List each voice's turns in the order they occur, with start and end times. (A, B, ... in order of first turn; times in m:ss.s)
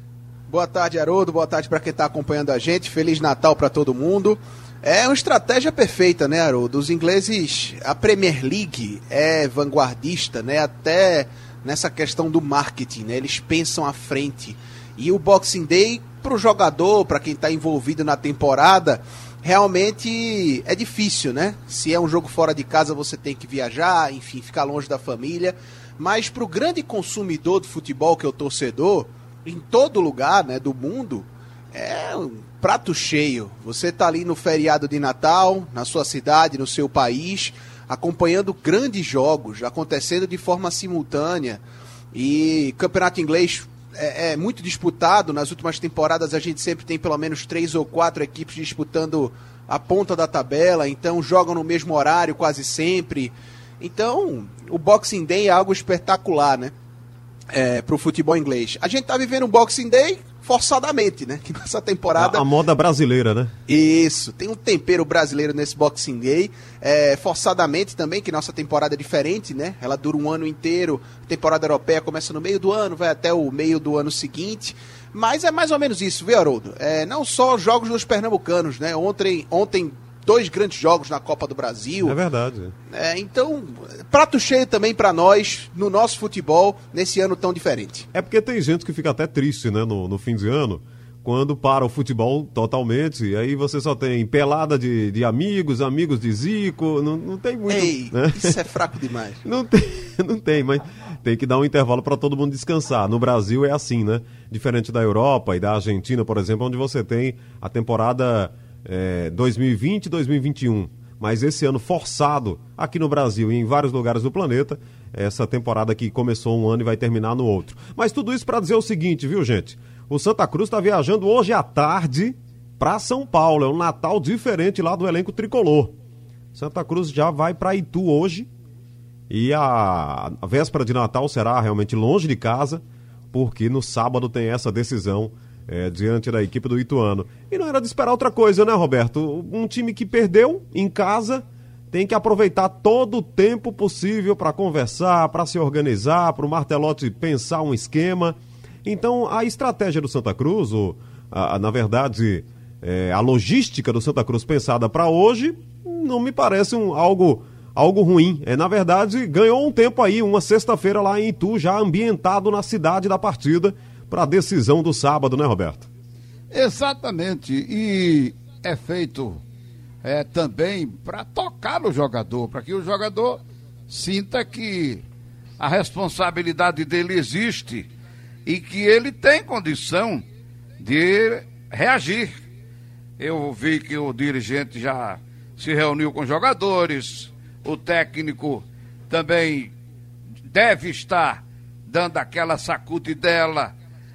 0:00.5-0:41.6 A
0:42.1-0:56.7 A
0:57.5-1:02.4 A
1:02.2-1:03.5 B
1:03.7-1:22.2 A
1:22.0-1:22.7 B
1:22.9-1:28.1 A
1:28.1-1:38.6 B
1:37.7-1:39.4 A
1:39.4-2:05.9 B
2:06.5-2:08.5 B
2:09.3-2:45.9 B
2:46.5-2:49.4 C
2:50.0-2:55.0 C
2:55.6-2:57.9 C
2:58.4-3:00.2 C
3:00.8-3:02.3 C
3:03.2-3:09.7 C
3:10.5-3:13.7 C